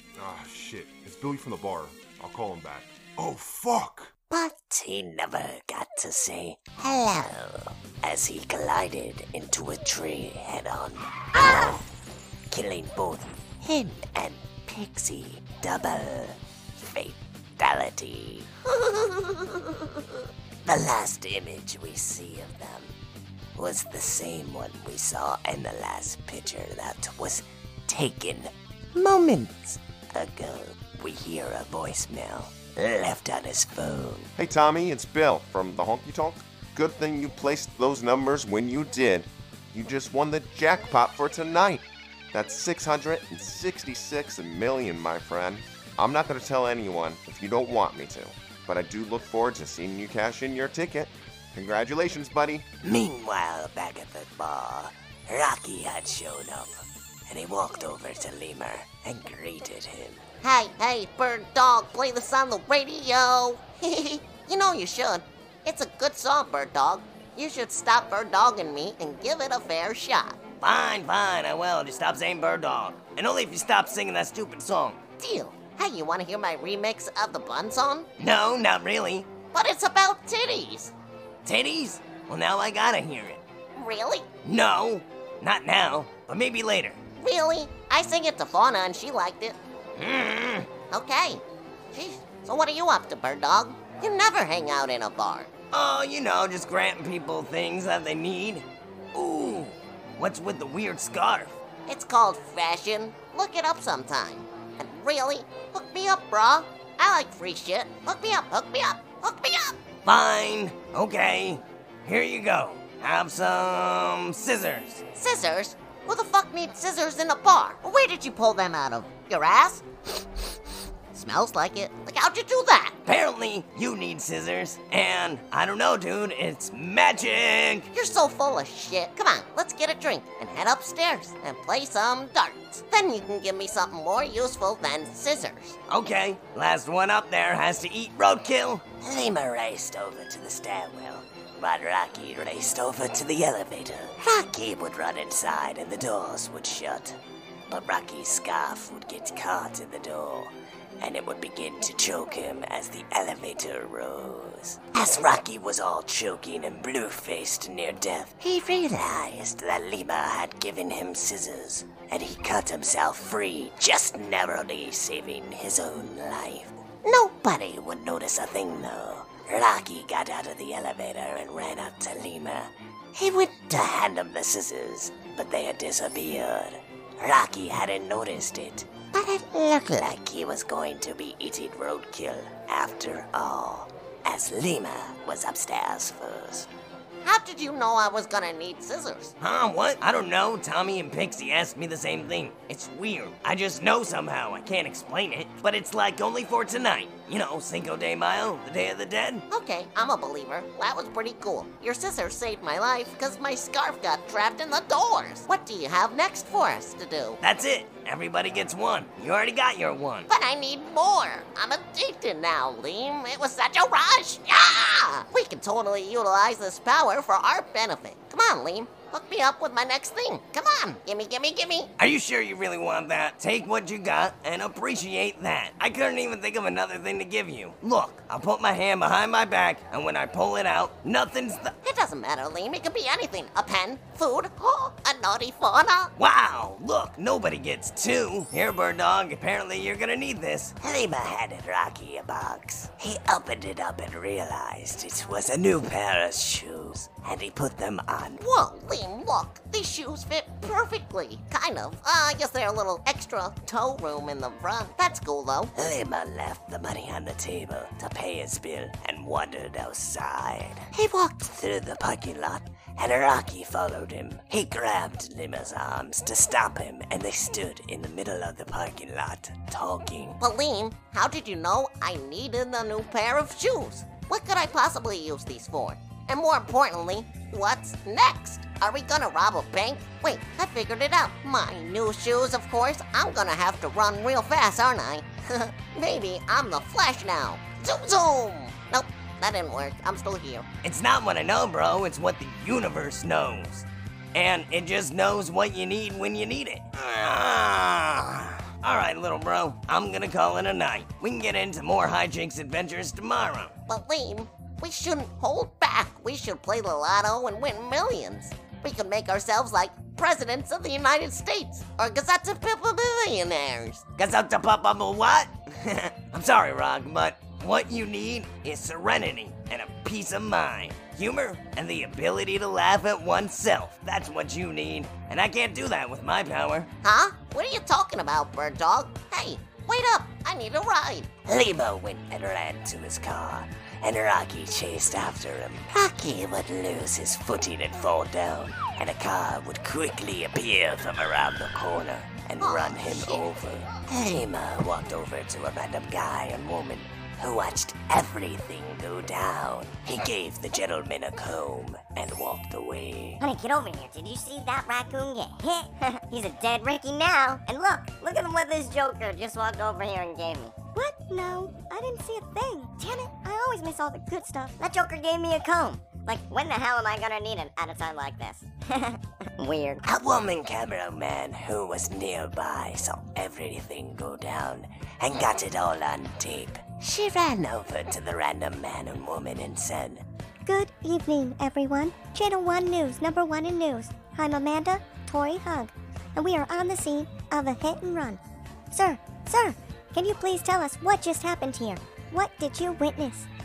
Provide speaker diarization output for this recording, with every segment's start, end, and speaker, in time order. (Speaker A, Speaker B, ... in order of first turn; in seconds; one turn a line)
Speaker A: 0.2-4.1
Speaker B: 4.3-11.8
Speaker B: 12.5-18.5
Speaker C: 18.7-19.8
Speaker B: 20.6-22.9
Speaker B: 23.6-34.3
Speaker D: 34.4-52.6
Speaker B: 52.8-60.2
Speaker C: 60.4-70.4
Speaker E: 70.6-75.0
Speaker C: 75.2-78.1
Speaker E: 78.2-79.3
Speaker C: 79.5-80.9
Speaker E: 81.5-83.4
Speaker C: 83.8-84.3
Speaker E: 84.4-87.0
Speaker C: 87.2-89.6
Speaker E: 90.0-90.7
Speaker C: 90.9-95.5
Speaker E: 95.7-101.6
Speaker C: 101.9-109.8
Speaker E: 110.1-115.0
Speaker C: 115.2-120.4
Speaker C: 121.1-123.0
Speaker E: 123.1-127.9
Speaker C: 127.9-135.8
Speaker E: 135.9-138.8
Speaker B: 139.0-147.2
Speaker B: 147.7-186.7
Speaker C: 187.2-189.3
Speaker E: 189.4-199.4
Speaker C: 199.5-207.4
Speaker E: 207.4-210.3
Speaker C: 210.3-221.9
Speaker E: 222.0-231.8
Speaker C: 231.8-236.1
Speaker E: 236.2-240.7
Speaker B: 240.8-248.4
Speaker C: 248.4-255.7
Speaker B: 255.8-270.4
Speaker C: 270.4-290.7
Speaker E: 290.8-303.8
Speaker C: 303.9-314.0
Speaker E: 314.2-326.9
Speaker C: 327.0-331.3
Speaker B: 331.5-353.4
Speaker C: 342.6-343.4
Speaker F: 353.4-360.8
Speaker G: 360.9-364.8
Speaker F: 364.8-370.0
Speaker B: 370.1-380.2
Speaker G: 380.6-388.4
Speaker G: 388.9-393.5